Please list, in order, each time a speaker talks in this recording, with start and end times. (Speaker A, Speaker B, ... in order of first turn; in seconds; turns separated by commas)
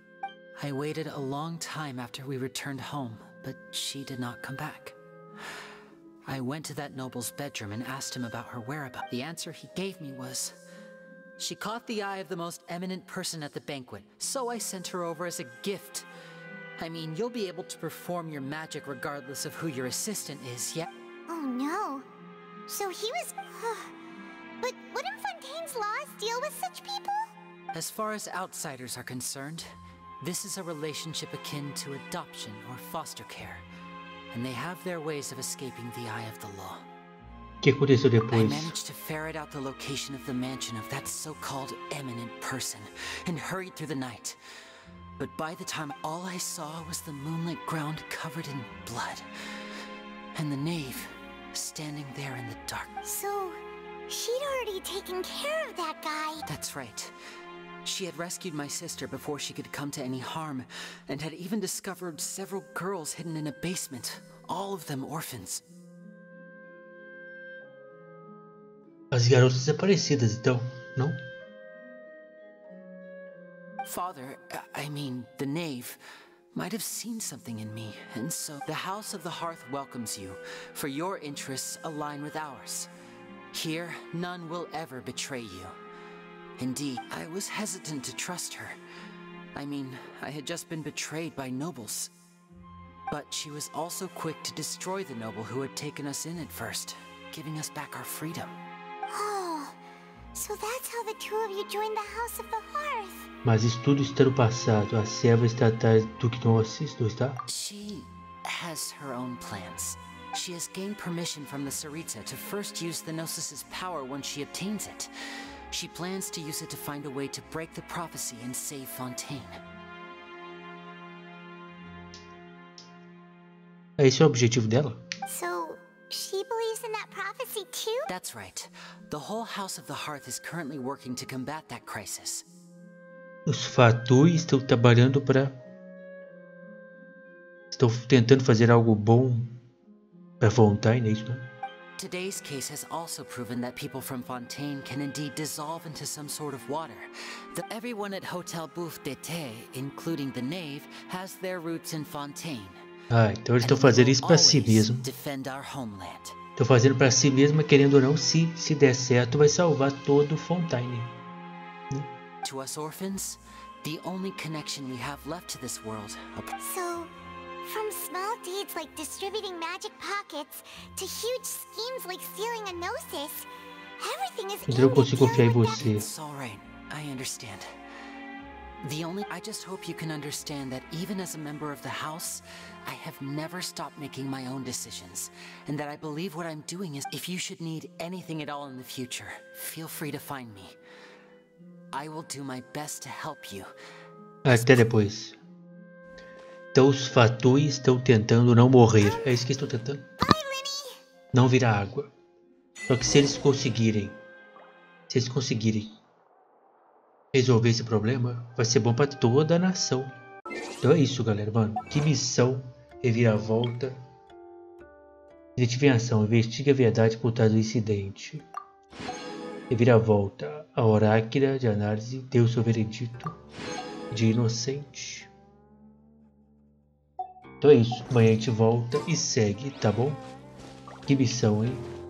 Speaker A: 0.6-5.0, Speaker A: 6.2-10.6, Speaker A: 11.4-16.1, Speaker A: 16.8-20.9, Speaker B: 21.3-22.1, Speaker B: 22.7-23.9, Speaker B: 24.6-27.3, Speaker A: 27.7-33.6, Speaker A: 34.3-36.9, Speaker C: 37.6-38.7, Speaker A: 38.3-44.4, Speaker A: 45.2-49.3, Speaker A: 50.3-52.9, Speaker B: 53.0-56.4, Speaker A: 56.5-57.1, Speaker A: 57.8-65.6, Speaker C: 69.1-71.2, Speaker A: 73.8-76.0, Speaker A: 76.5-82.9, Speaker A: 83.5-85.8, Speaker A: 86.6-88.8, Speaker A: 89.5-92.1, Speaker A: 93.1-98.6, Speaker B: 99.1-99.8, Speaker B: 100.3-103.3, Speaker C: 103.4-107.4, Speaker A: 107.5-115.1, Speaker A: 115.7-119.6, Speaker C: 124.0-125.0, Speaker B: 125.3-128.1, Speaker A: 128.1-132.4, Speaker C: 133.4-135.6, Speaker C: 137.7-139.6, Speaker C: 140.4-141.4, Speaker A: 142.0-152.8, Speaker C: 153.1-155.1, Speaker A: 153.6-156.4, Speaker C: 156.6-161.1, Speaker A: 162.4-166.5, Speaker B: 166.6-175.8, Speaker C: 174.7-176.1, Speaker A: 175.6-177.7, Speaker A: 178.8-190.8, Speaker A: 191.9-193.7, Speaker C: 194.4-195.3, Speaker A: 194.4-194.9, Speaker C: 196.7-200.0, Speaker B: 200.2-201.0, Speaker C: 201.3-202.1, Speaker C: 202.9-204.2, Speaker C: 205.1-206.0, Speaker C: 207.3-210.1, Speaker C: 210.8-214.0, Speaker C: 215.6-218.4, Speaker C: 219.7-223.3, Speaker C: 224.1-225.3, Speaker C: 227.6-230.2, Speaker C: 231.1-231.9